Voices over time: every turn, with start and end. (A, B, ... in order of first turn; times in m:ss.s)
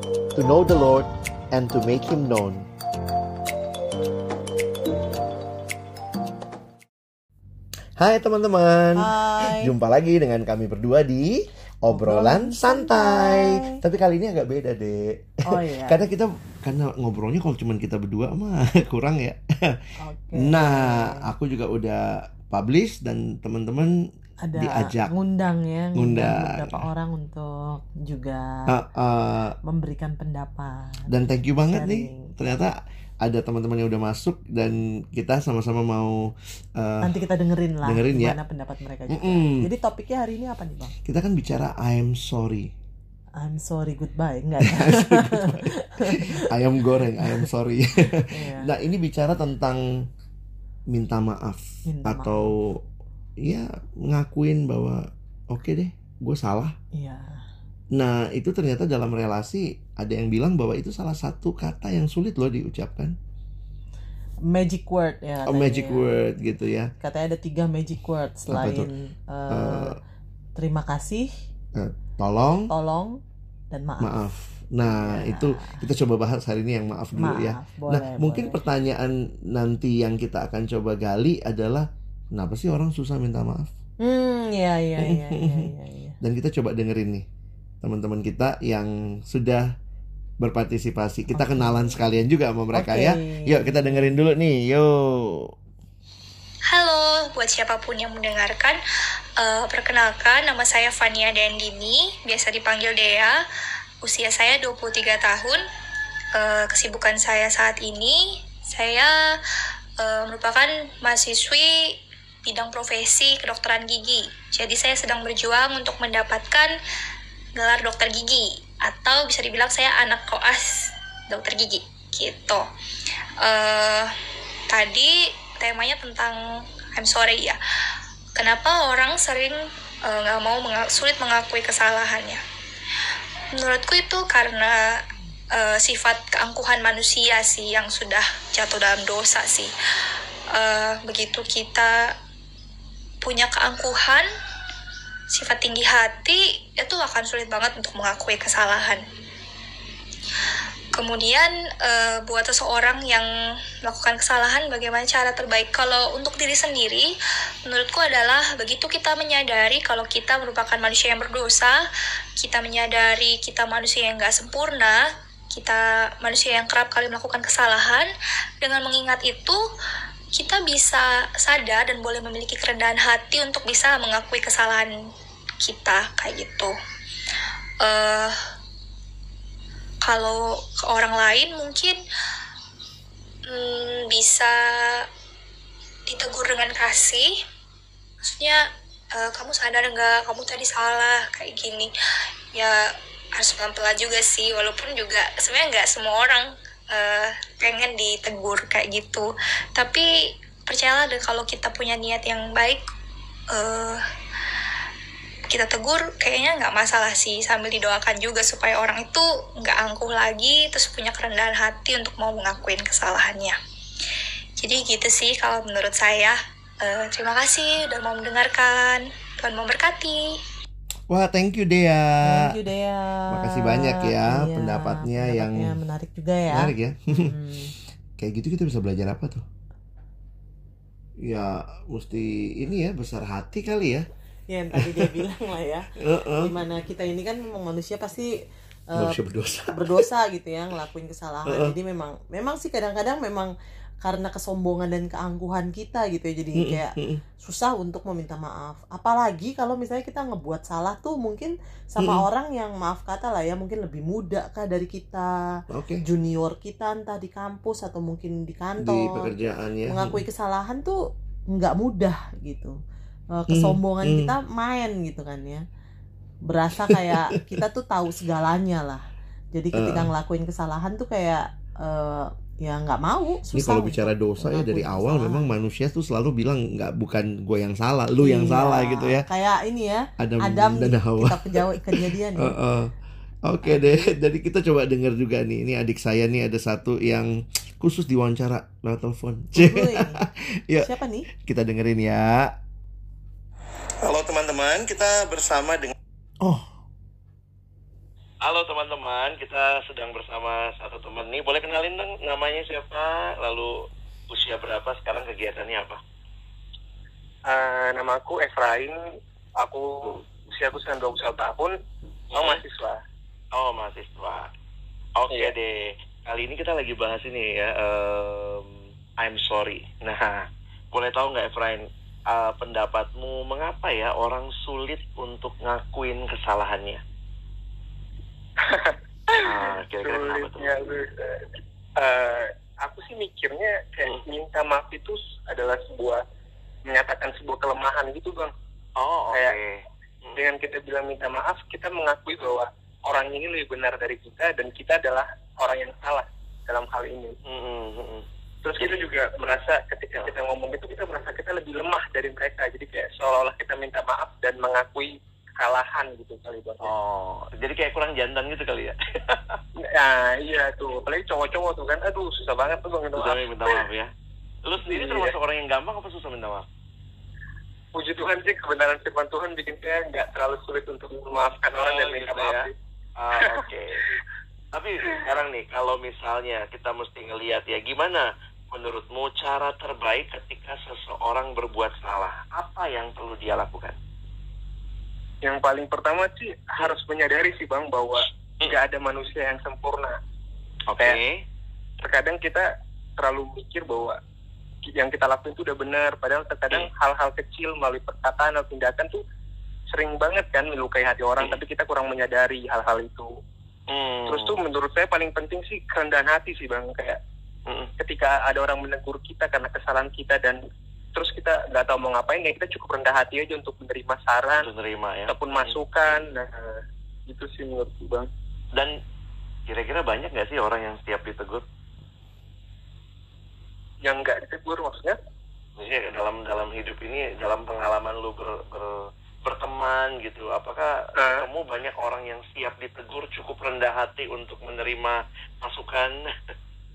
0:00.3-0:02.7 A
0:08.0-0:19.8 A
0:09.0-0:09.7 B
0:11.9-0:13.8 B
0:15.4-0:16.0 B
0:20.0-0:21.2 B
0:20.3-0:23.9 A
0:24.4-0:28.7 B
0:24.6-0:25.1 A
0:25.9-0:26.8 A
0:28.7-0:29.6 A
0:29.6-0:31.1 B
0:31.1-0:37.2 A
0:31.7-0:32.3 B
0:37.0-0:40.9 B
0:37.8-0:38.4 A
0:39.1-0:39.7 A
0:41.0-0:42.7 A
0:43.4-0:46.4 B
0:44.6-0:49.8 A
0:47.2-0:47.5 B
0:48.3-0:48.7 B
0:50.9-0:52.8 A
0:51.9-0:52.5 B
0:53.4-0:56.8 A
0:56.9-0:57.4 B
0:57.9-1:03.2 A
1:04.5-1:06.1 B
1:05.4-1:06.9 A
1:07.0-1:10.0 B
1:08.5-1:08.9 A
1:09.5-1:10.0 A
1:10.6-1:11.3 B
1:11.7-1:12.7 A
1:12.7-1:13.2 B
1:13.7-1:14.1 B
1:14.0-1:23.7 A
1:14.8-1:15.8 B
1:17.2-1:18.6 B
1:24.0-1:26.2 B
1:25.0-1:25.7 A
1:26.2-1:27.2 A
1:27.8-1:29.7 A
1:30.4-1:35.5 A
1:31.3-1:32.0 B
1:32.7-1:34.2 B
1:36.7-1:38.8 C
1:39.4-1:43.4 C
1:44.0-1:45.6 C
1:46.3-1:49.4 C
1:50.0-1:56.7 C
1:57.5-2:02.6 C
2:03.4-2:04.2 C
2:04.7-2:06.4 C
2:06.9-2:07.6 C
2:08.3-2:12.4 C
2:13.5-2:19.7 C
2:20.5-2:22.1 C
2:23.2-2:24.3 C
2:25.3-2:29.0 C
2:30.9-2:33.3 C
2:33.8-2:37.1 C
2:37.6-2:41.8 C
2:42.4-2:48.1 C
2:48.6-2:49.6 C
2:50.3-2:54.9 C
2:55.6-2:56.7 C
2:57.8-2:58.4 C
3:00.0-3:02.0 C
3:03.5-3:05.1 C
3:06.1-3:07.4 C
3:08.2-3:11.9 C
3:12.5-3:20.1 C
3:20.7-3:22.8 C
3:23.5-3:24.0 C
3:25.5-3:33.6 C
3:34.6-3:40.4 C
3:41.1-3:42.6 A
3:42.2-3:47.7 B
3:43.3-3:45.8 A
3:46.5-3:47.4 A
3:48.2-3:49.4 A
3:51.2-3:54.0 A
3:54.5-3:55.9 B
3:54.7-3:55.2 A
3:56.0-3:56.5 A
3:56.4-3:58.4 B
3:58.9-3:59.2 B
3:58.9-4:00.1 A
3:59.7-4:03.5 B
4:01.4-4:01.7 A
4:04.0-4:15.4 B
4:06.6-4:07.2 A
4:12.0-4:12.2 A
4:15.7-4:16.0 A
4:16.0-4:19.3 B
4:18.8-4:20.2 A
4:19.9-4:21.0 B
4:21.5-4:22.8 B
4:23.3-4:25.6 B
4:23.5-4:24.3 A
4:26.5-4:35.5 B
4:26.8-4:27.1 A
4:29.7-4:30.1 A
4:33.5-4:39.2 A
4:38.2-4:42.5 B
4:40.2-4:42.9 A
4:43.4-4:52.5 A
4:43.6-4:43.9 B
4:49.6-4:50.2 B
4:50.8-4:51.3 B
4:54.0-4:56.7 A
4:58.4-5:03.8 D
5:04.3-5:06.0 D
5:07.5-5:09.0 E
5:09.6-5:11.8 E
5:12.3-5:12.6 D
5:12.3-5:13.0 E
5:13.5-5:14.5 D
5:15.2-5:27.0 D
5:28.6-5:36.2 E
5:29.4-5:30.7 D
5:36.9-5:38.5 E
5:39.0-5:40.4 D
5:39.3-5:39.6 E
5:40.4-5:47.4 E
5:47.4-5:48.2 D
5:48.6-5:56.9 E
5:56.8-5:59.6 D
5:59.9-6:03.8 E
6:03.1-6:04.1 D
6:04.6-6:06.6 D
6:04.8-6:05.4 E
6:07.9-6:12.7 E
6:11.7-6:14.0 D
6:14.7-6:24.0 D
6:25.4-6:30.2 E
6:30.9-6:31.4 D
6:32.0-6:34.2 E
6:34.9-6:39.2 E
6:39.9-6:43.3 E
6:43.9-6:44.6 D
6:44.3-6:47.2 E
6:48.0-6:50.6 E
6:51.1-6:54.7 E
6:54.6-6:55.8 D
6:55.3-6:58.3 E
6:58.7-6:59.0 D
6:59.7-7:01.6 D
7:04.0-7:05.2 E
7:05.8-7:16.3 D
7:11.2-7:11.5 E